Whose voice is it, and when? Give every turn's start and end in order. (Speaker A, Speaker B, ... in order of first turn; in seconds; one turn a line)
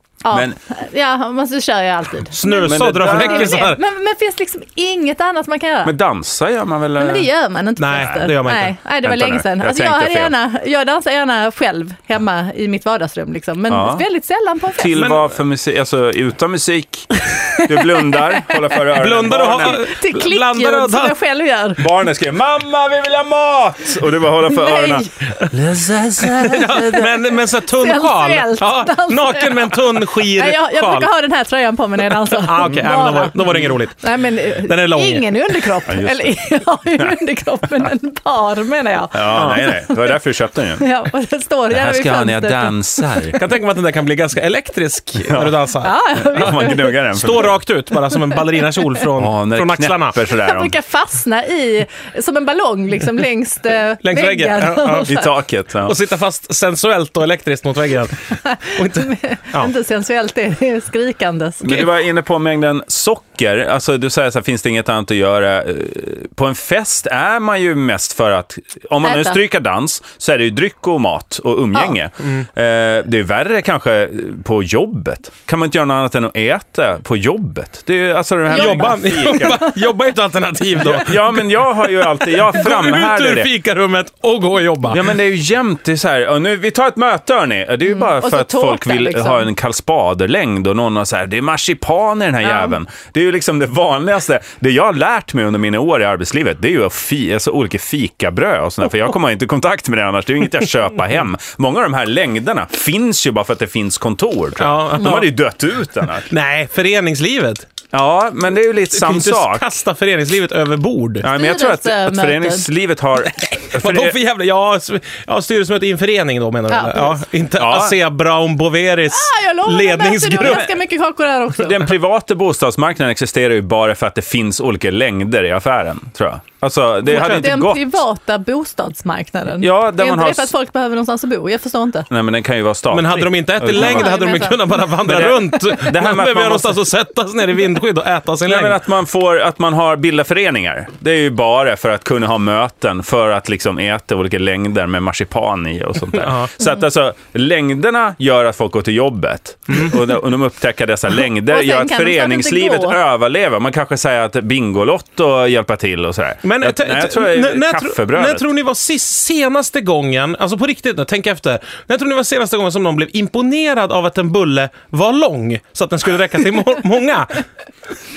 Speaker A: 0.2-5.9
Speaker B: 0.3-0.6
Speaker C: 2.3-3.8
Speaker B: 2.5-3.7
Speaker B: 5.8-7.3
Speaker A: 7.0-15.0
Speaker C: 7.8-8.7
Speaker B: 9.0-10.3
Speaker B: 13.7-14.0
Speaker B: 14.7-19.8
Speaker C: 14.9-15.3
Speaker A: 17.1-18.6
Speaker C: 18.9-21.1
Speaker A: 19.6-21.9
Speaker B: 21.8-26.6
Speaker A: 24.5-25.3
Speaker C: 26.2-31.1
Speaker A: 26.3-40.2
Speaker C: 32.1-35.3
Speaker B: 32.6-32.9
Speaker B: 33.5-33.7
Speaker B: 35.9-36.4
Speaker B: 39.1-40.8
Speaker C: 39.3-39.6
Speaker A: 40.8-43.4
Speaker B: 41.7-43.4
Speaker C: 43.3-46.5
Speaker B: 45.3-45.5
Speaker A: 45.8-47.0
Speaker B: 46.1-47.6
Speaker C: 47.1-50.2
Speaker A: 48.1-48.9
Speaker B: 49.2-50.7
Speaker A: 50.3-55.2
Speaker C: 54.0-55.2
Speaker B: 55.1-56.0
Speaker C: 55.8-59.7
Speaker A: 58.5-61.7
Speaker B: 61.6-79.6
Speaker A: 69.0-69.4
Speaker A: 78.5-79.8
Speaker C: 78.5-85.2
Speaker B: 80.8-83.5
Speaker B: 84.9-106.3
Speaker A: 87.9-89.5
Speaker A: 92.4-92.8
Speaker C: 104.6-105.3
Speaker C: 106.3-107.6
Speaker B: 107.9-109.7
Speaker C: 108.9-111.2
Speaker B: 111.2-114.2
Speaker A: 111.2-112.7
Speaker C: 113.2-120.7
Speaker A: 116.7-117.2
Speaker B: 117.6-118.0
Speaker A: 119.1-121.9
Speaker B: 121.6-128.0
Speaker A: 127.0-132.1
Speaker B: 129.6-130.5
Speaker B: 132.1-134.2
Speaker C: 132.9-138.8
Speaker A: 133.7-134.9
Speaker B: 135.0-136.8
Speaker B: 138.4-158.4
Speaker C: 146.1-146.5
Speaker A: 151.4-153.0
Speaker C: 156.4-167.4